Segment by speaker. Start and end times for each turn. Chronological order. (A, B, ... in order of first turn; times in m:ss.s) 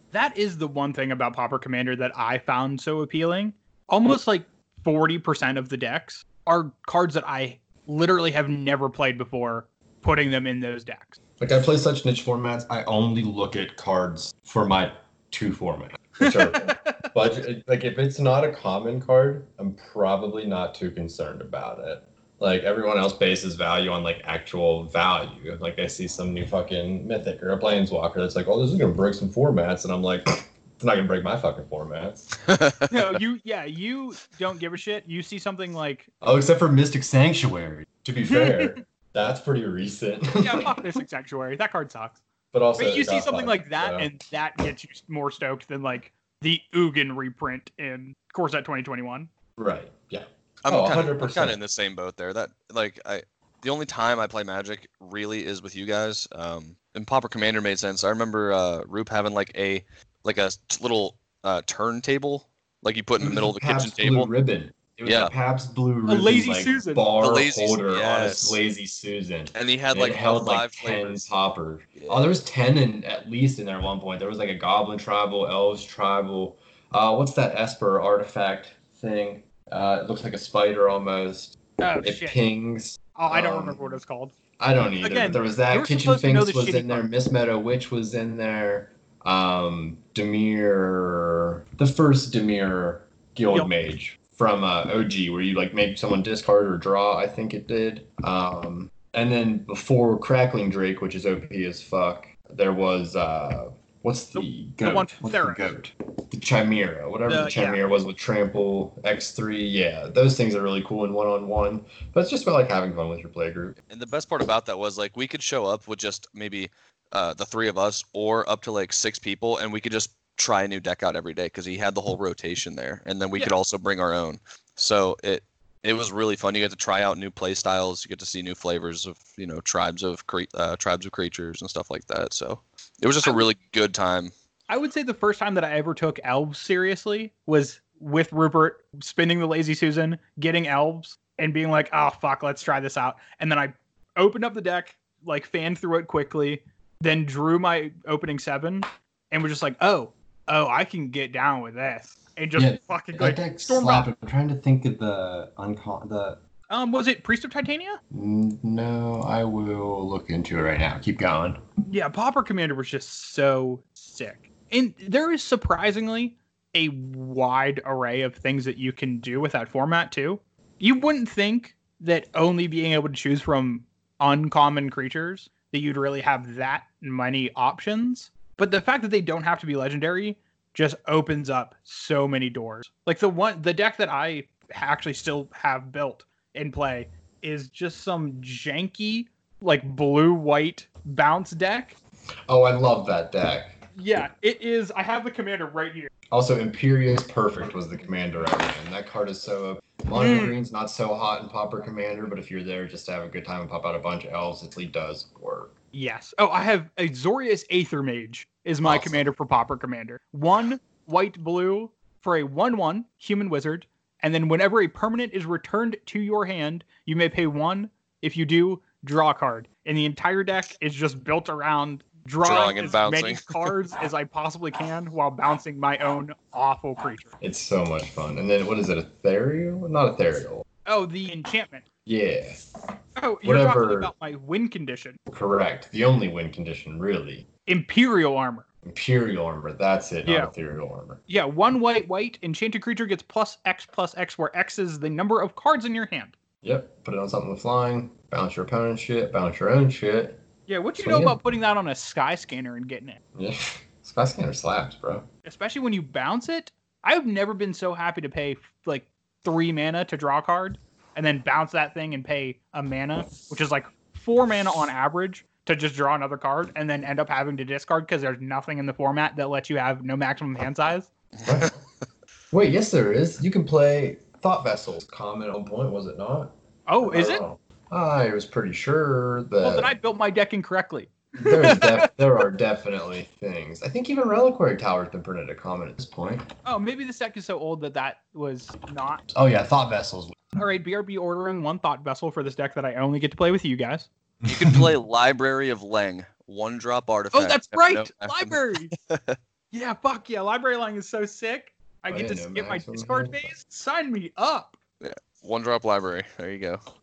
0:00.1-0:11.2 A
0:11.4-0:32.3 B
0:16.2-0:17.1 A
0:32.5-0:32.9 C
0:32.9-0:36.1 A
0:36.2-0:40.8 B
0:38.3-0:38.8 A
0:40.4-0:42.2 A
0:42.5-0:44.1 B
0:42.8-0:49.3 A
0:49.6-0:51.6 B
0:50.6-1:04.3 C
1:03.2-1:23.8 B
1:05.1-1:05.3 C
1:06.1-1:07.1 A
1:07.2-1:08.6 C
1:09.5-1:11.2 C
1:12.0-1:12.3 C
1:21.8-1:22.4 A
1:23.2-1:24.3 A
1:24.6-1:53.8 B
1:25.0-1:27.0 A
1:44.4-1:45.7 A
1:47.3-1:47.8 A
1:53.9-2:14.3 C
2:13.2-2:13.5 A
2:14.7-2:34.1 A
2:32.6-2:36.4 B
2:36.7-2:38.0 A
2:38.1-2:41.6 B
2:41.8-3:12.0 A
3:12.5-3:13.8 B
3:14.0-3:16.1 A
3:16.3-3:25.7 B
3:20.2-3:20.5 A
3:25.9-3:47.3 A
3:28.8-3:29.2 B
3:42.4-3:43.7 C
3:47.4-3:50.6 B
3:50.9-3:51.8 A
3:52.1-3:52.6 B
3:53.2-3:55.2 A
3:53.4-3:54.1 B
3:55.3-3:57.5 B
3:57.7-3:58.6 A
3:58.8-4:01.2 B
4:00.2-4:00.5 A
4:01.3-4:06.4 A
4:06.6-4:10.4 B
4:10.7-4:13.2 A
4:11.0-4:11.4 B
4:13.4-4:15.3 B
4:15.4-4:31.1 A
4:31.4-4:31.8 B
4:32.5-4:39.9 B
4:36.9-4:37.4 A
4:39.6-4:42.1 A
4:41.4-4:46.5 B
4:46.6-4:49.2 A
4:49.3-4:50.4 B
4:50.6-4:54.1 A
4:54.4-4:54.9 B
4:54.5-4:59.4 C
4:57.3-4:58.9 A
4:59.7-5:04.8 A
5:02.1-5:03.5 B
5:05.0-5:06.8 C